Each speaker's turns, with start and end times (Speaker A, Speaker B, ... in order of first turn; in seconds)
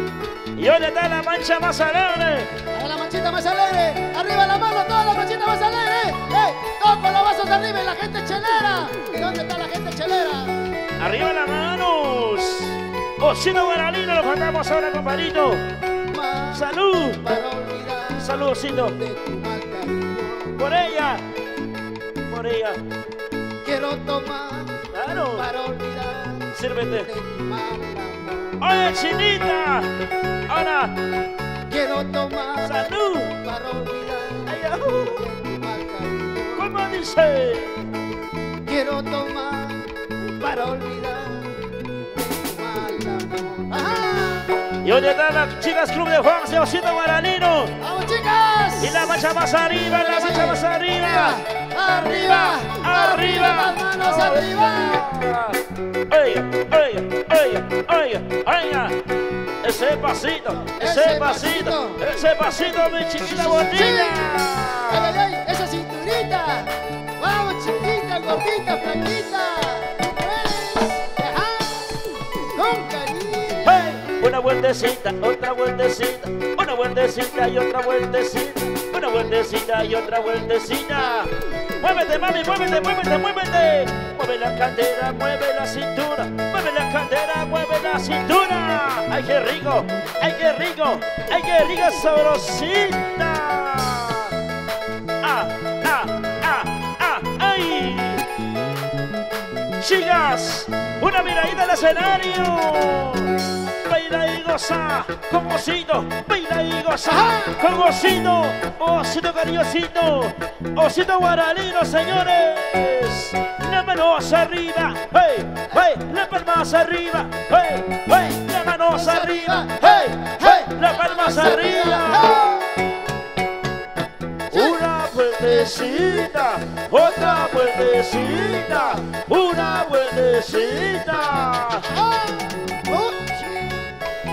Speaker A: 0.6-2.5, 11.0-15.7, 16.5-17.3, 18.2-19.0, 20.6-21.2, 22.2-22.8, 24.9-25.5, 26.5-27.1, 28.6-29.9, 30.5-31.0, 32.6-33.4, 34.5-35.3, 36.5-37.8, 44.8-47.8, 48.8-59.0, 59.6-65.2, 73.7-94.3, 95.2-98.3, 99.8-122.4, 124.5-131.9
Speaker B: 2.7-10.6, 16.1-20.6, 23.6-24.8, 25.3-28.7, 31.7-36.7, 38.6-44.5, 47.8-49.2, 49.8-55.1, 60.7-62.0, 63.2-74.0, 107.1-107.6, 118.9-122.9, 124.5-124.9, 125.4-127.7, 128.4-129.1, 131.9-134.0